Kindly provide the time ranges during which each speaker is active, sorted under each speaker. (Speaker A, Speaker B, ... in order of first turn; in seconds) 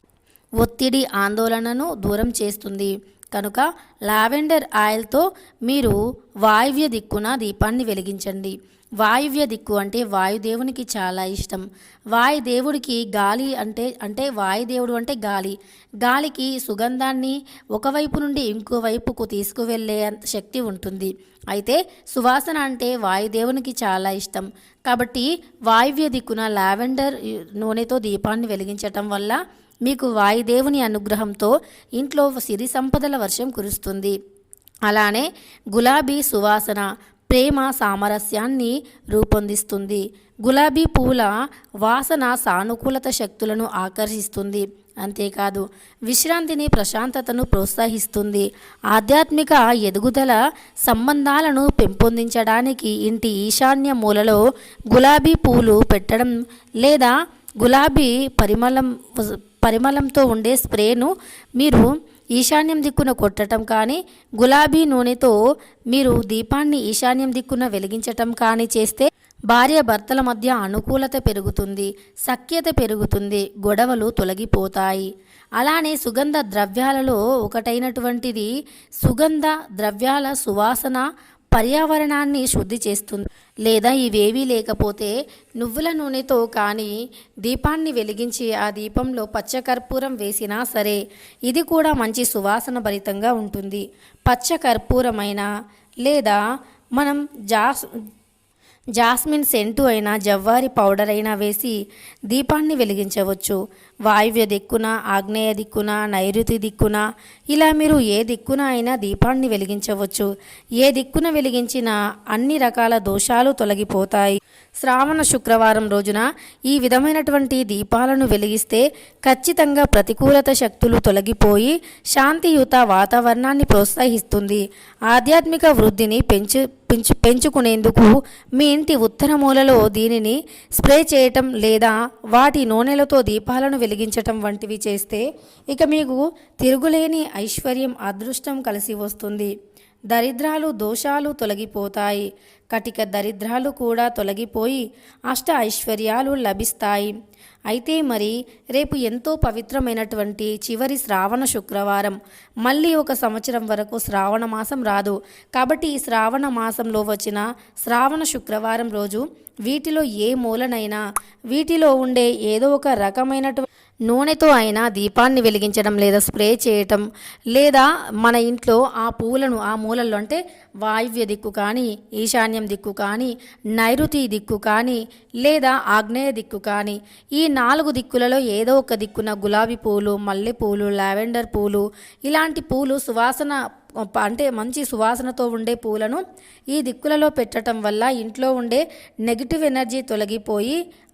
Speaker A: 0.6-34.1, 34.9-41.3, 41.8-65.3, 65.9-78.5, 79.0-95.5, 96.0-96.4, 97.0-97.8, 99.0-101.8, 102.3-110.3, 110.8-139.5, 140.1-147.1, 147.7-161.0, 161.5-183.6, 184.1-190.8